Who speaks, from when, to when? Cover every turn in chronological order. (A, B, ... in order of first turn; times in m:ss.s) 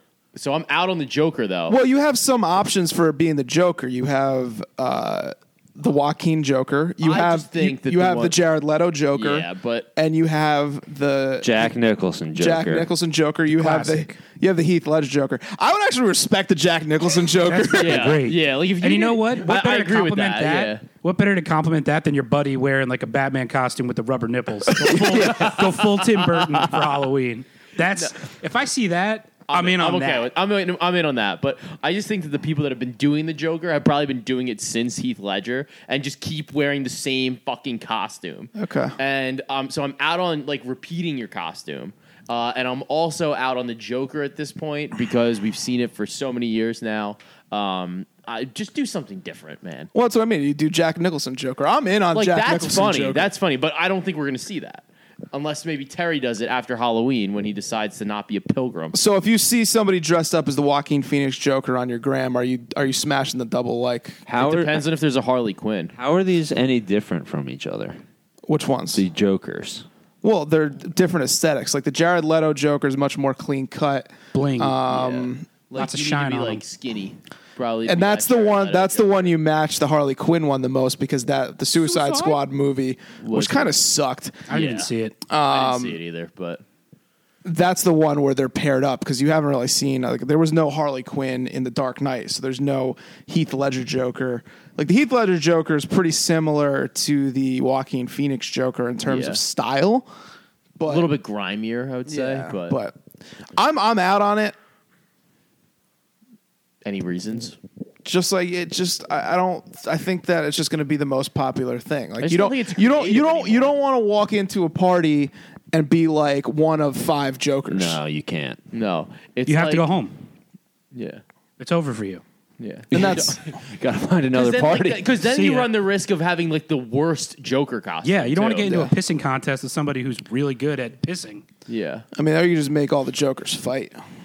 0:00.4-0:01.8 A
0:01.7-0:11.7 B
0:07.0-0:08.4 A
0:09.2-0:09.9 A
0:11.4-0:12.9 C
0:12.4-0:18.2 B
0:13.5-0:14.1 D
0:17.5-0:30.3 D
0:17.8-0:20.8 A
0:24.8-0:26.9 A
0:29.5-0:49.9 A
0:38.6-0:39.0 B
0:49.9-0:53.3 B
0:52.1-0:59.0 A
0:58.9-1:04.2 B
1:04.3-1:04.8 C
1:04.4-1:06.0 A
1:06.0-1:08.0 C
1:08.5-1:09.0 B
1:08.9-1:09.9 C
1:10.2-1:15.5 B
1:14.3-1:14.8 D
1:14.9-1:19.4 A
1:15.8-1:16.6 D
1:17.9-1:24.5 B
1:21.8-1:22.4 D
1:23.2-1:23.8 A
1:24.5-1:25.2 D
1:24.5-1:26.6 A
1:25.3-1:26.0 B
1:27.4-1:40.1 B
1:39.1-1:39.4 A
1:40.8-1:41.1 B
1:40.9-1:42.8 A
1:42.1-1:43.0 B
1:43.5-1:44.6 B
1:46.8-1:47.6 A
1:48.0-1:58.0 B
1:52.2-1:53.8 A
1:57.7-1:58.6 C
1:58.7-1:59.9 A
1:59.5-2:00.2 D
2:00.9-2:01.2 A
2:01.6-2:02.2 D
2:02.6-2:03.5 A
2:02.9-2:03.4 B
2:03.0-2:05.1 C
2:04.3-2:08.9 A
2:05.2-2:05.7 D
2:08.0-2:11.4 D
2:08.7-2:08.9 B
2:11.7-2:12.0 A
2:12.2-2:14.0 B